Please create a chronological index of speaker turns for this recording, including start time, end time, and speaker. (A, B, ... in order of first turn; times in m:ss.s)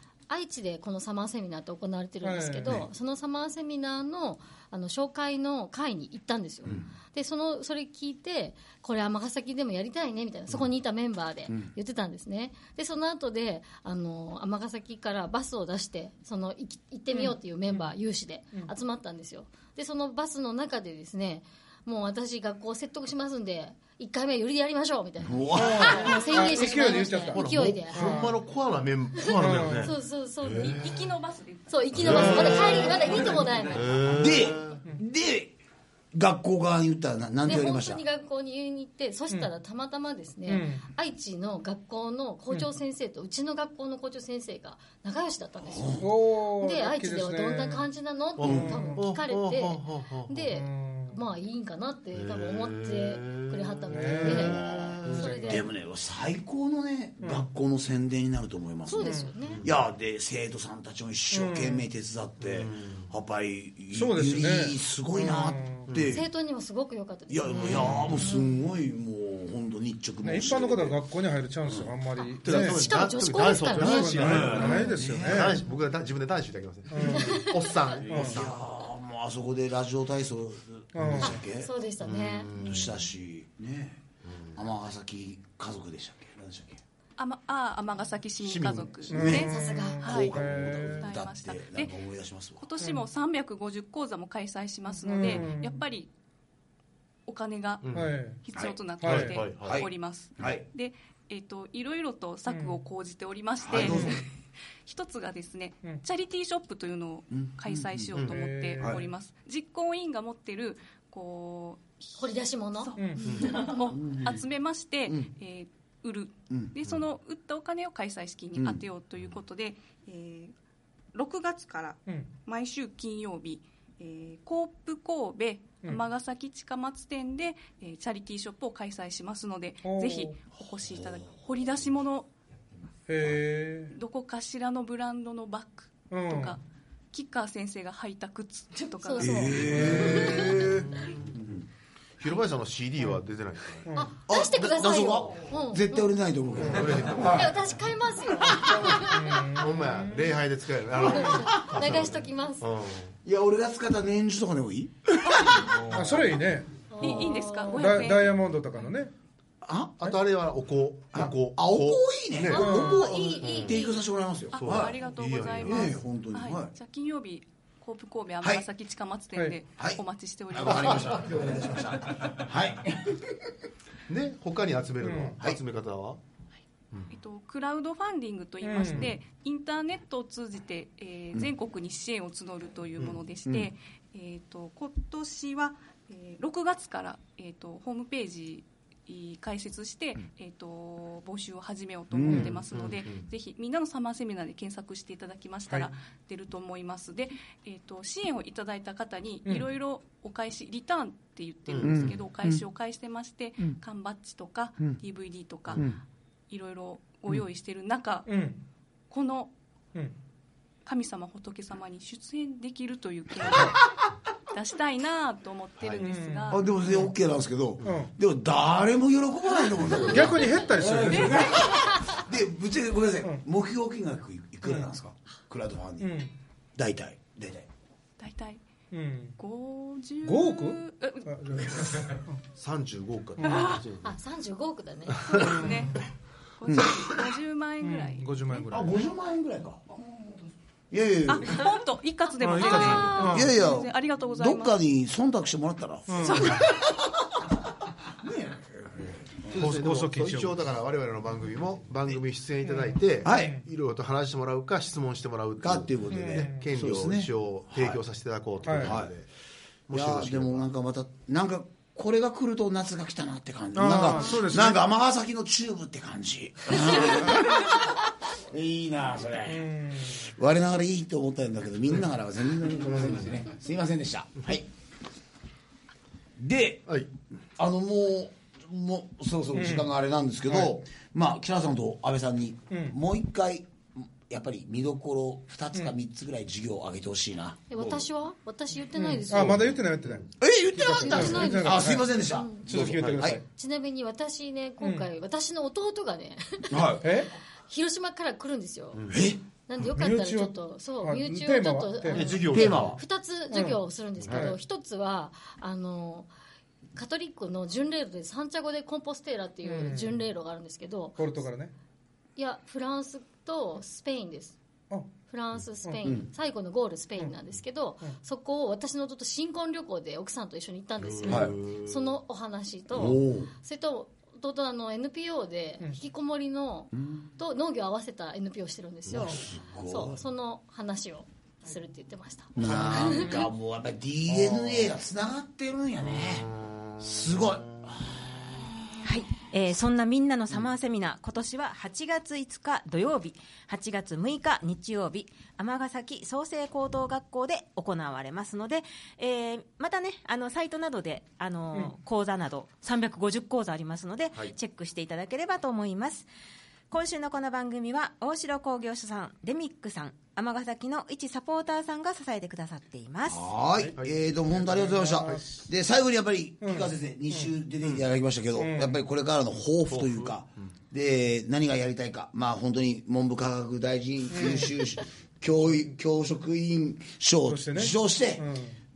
0:00.3-0:28.2 A
0:02.2-0:02.8 B
0:17.1-0:17.9 B
0:25.2-0:26.1 C
0:25.5-0:28.4 B
0:26.6-0:31.2 D
0:29.2-0:29.9 B
0:29.3-0:30.8 A
0:30.6-0:33.8 E
0:31.7-0:34.0 A
0:32.0-0:34.8 D
0:32.0-0:33.0 C
0:34.1-0:35.6 C
0:36.1-0:38.0 C
0:37.4-0:55.7 A
0:40.5-0:40.9 B
0:45.7-0:46.1 C
0:46.0-0:47.9 B
0:48.4-0:50.4 D
0:48.4-0:48.7 C
0:48.4-0:49.0 B
0:50.5-0:51.2 B
0:52.1-0:55.3 D
0:53.9-0:55.6 B
0:54.3-1:06.3 C
0:57.2-0:57.5 B
0:58.8-0:59.6 A
0:59.0-0:59.3 B
0:59.4-0:59.8 D
1:01.3-1:01.8 B
1:02.4-1:03.1 D
1:03.9-1:05.9 B
1:05.9-1:06.2 D
1:06.0-1:08.5 A
1:07.3-1:11.0 C
1:07.6-1:08.3 D
1:10.2-1:12.8 B
1:11.6-1:11.9 C
1:12.2-1:14.7 A
1:12.4-1:18.5 D
1:13.6-1:15.6 B
1:14.2-1:15.6 C
1:16.9-1:17.5 B
1:17.1-1:17.5 A
1:18.0-1:21.7 C
1:18.1-1:18.4 B
1:20.9-1:21.4 B
1:21.0-1:21.3 D
1:21.2-1:22.9 A
1:22.0-1:23.0 D
1:22.6-1:26.8 C
1:24.3-1:24.6 D
1:27.2-1:31.9 E
1:28.4-1:29.5 D
1:29.1-1:31.1 B
1:29.1-1:32.6 C
1:29.4-1:30.0 A
1:32.6-1:36.1 E
1:35.0-1:35.8 B
1:37.3-1:44.3 E
1:37.8-1:38.1 D
1:37.9-1:38.4 B
1:38.6-1:40.6 C
1:39.0-1:39.3 B
1:39.0-1:39.9 D
1:42.5-1:42.8 B
1:43.6-1:44.2 C
1:43.8-1:44.2 B
1:44.8-2:00.5 E
1:47.3-1:48.2 C
1:48.3-1:49.0 B
1:52.2-1:53.0 A
1:53.0-1:53.3 B
1:53.2-1:53.6 D
1:53.5-1:54.4 C
1:55.1-1:55.3 C
1:58.6-1:58.8 C
2:01.1-2:12.3 E
2:02.0-2:02.3 B
2:09.8-2:10.4 B
2:13.1-2:13.9 B
2:13.9-2:16.6 E
2:16.1-2:16.5 B
2:17.1-2:19.6 E
2:19.0-2:20.7 A
2:19.2-2:21.7 C
2:19.5-2:21.4 D
2:22.2-2:23.9 D
2:23.8-2:24.1 B
2:23.9-2:26.1 A
2:24.3-2:27.6 C
2:25.0-2:25.4 D
2:26.5-2:27.5 D
2:27.2-2:29.5 A
2:28.6-2:30.4 B
2:29.5-2:33.2 D
2:31.0-2:32.6 A
2:31.7-2:32.0 C
2:33.2-2:36.1 C
2:35.5-2:36.3 D
2:35.9-2:37.2 B
2:36.9-2:38.0 A
2:37.0-2:38.5 E
2:37.7-2:39.1 B
2:39.6-2:40.2 C
2:40.0-2:43.8 D
2:41.1-2:45.0 C
2:42.5-2:44.0 A
2:42.6-2:43.0 B
2:44.5-2:51.4 E
2:44.5-2:46.0 D
2:45.6-2:46.7 C
2:49.8-2:53.6 C
2:54.1-2:56.2 D
2:55.0-2:55.4 B
2:57.1-3:26.0 E
2:58.6-2:59.1 B
3:03.4-3:03.7 C
3:12.1-3:12.5 C
3:12.4-3:13.3 D
3:21.7-3:22.2 D
3:21.8-3:22.6 C
3:25.7-3:26.0 C
3:26.5-3:28.3 E
3:28.3-3:28.6 B
3:29.1-3:29.5 E
3:30.8-3:33.8 E
3:33.5-3:33.7 B
3:34.5-3:36.7 E
3:35.8-3:36.0 D
3:36.0-3:37.1 B
3:36.5-3:46.2 C
3:37.8-3:38.1 B
3:40.0-3:41.6 B
3:46.0-3:46.3 B
3:46.8-3:47.7 C
3:48.2-3:48.6 E
3:48.9-3:49.4 B
3:49.4-3:52.0 E
3:50.2-3:52.4 B
3:52.5-3:54.1 D
3:53.4-3:53.7 B
3:54.0-3:55.4 A
3:55.2-3:55.6 D
3:55.3-3:56.0 E
3:55.4-3:55.8 B
3:56.6-3:58.6 E
3:56.6-3:57.1 C
3:57.8-3:59.0 B
3:58.7-4:01.7 C
4:01.3-4:04.8 E
4:02.4-4:03.6 B
4:02.6-4:09.9 C
4:06.1-4:06.5 B
4:06.2-4:06.9 E
4:09.5-4:19.3 D
4:09.6-4:10.6 B
4:12.6-4:13.6 B
4:13.2-4:13.6 C
4:15.6-4:18.0 C
4:16.1-4:16.7 B
4:18.6-4:19.0 B
4:18.8-4:19.1 C
4:19.9-4:20.7 D
4:19.9-4:34.7 C
4:23.7-4:24.8 B
4:29.5-4:30.3 B
4:32.7-4:33.4 D
4:36.4-4:36.8 C
4:37.6-4:48.1 C
4:39.5-4:39.9 B
4:42.7-4:43.0 B
4:47.7-4:49.7 A
4:48.9-4:52.1 B
4:49.3-4:50.2 D
4:50.4-4:53.4 C
4:51.0-4:52.7 A
4:52.6-4:53.4 B
4:53.0-4:53.3 D
4:53.5-4:57.0 A
4:54.8-4:55.1 B
4:56.7-4:57.1 C
4:57.0-4:57.3 B
4:57.7-4:59.0 A
4:58.9-4:59.2 D
4:59.1-4:59.4 C
4:59.7-5:06.3 A
4:59.8-5:02.5 B
5:02.1-5:03.0 D
5:02.4-5:03.0 C
5:03.5-5:04.6 B
5:04.2-5:04.5 D
5:06.9-5:11.4 A
5:09.6-5:10.2 B
5:11.2-5:11.7 B
5:12.4-5:14.6 A
5:15.3-5:33.4 A
5:21.0-5:22.0 D
5:21.2-5:21.6 C
5:22.9-5:23.5 C
5:26.9-5:27.3 C
5:29.1-5:30.2 C
5:32.6-5:39.2 C
5:34.3-5:34.9 D
5:36.1-5:37.8 D
5:39.0-5:56.3 F
5:56.9-6:03.4 F
6:03.2-6:18.5 C
6:04.6-6:05.6 B
6:06.6-6:07.5 B
6:08.6-6:09.0 B
6:09.9-6:10.6 D
6:14.3-6:14.8 B
6:17.4-6:18.8 B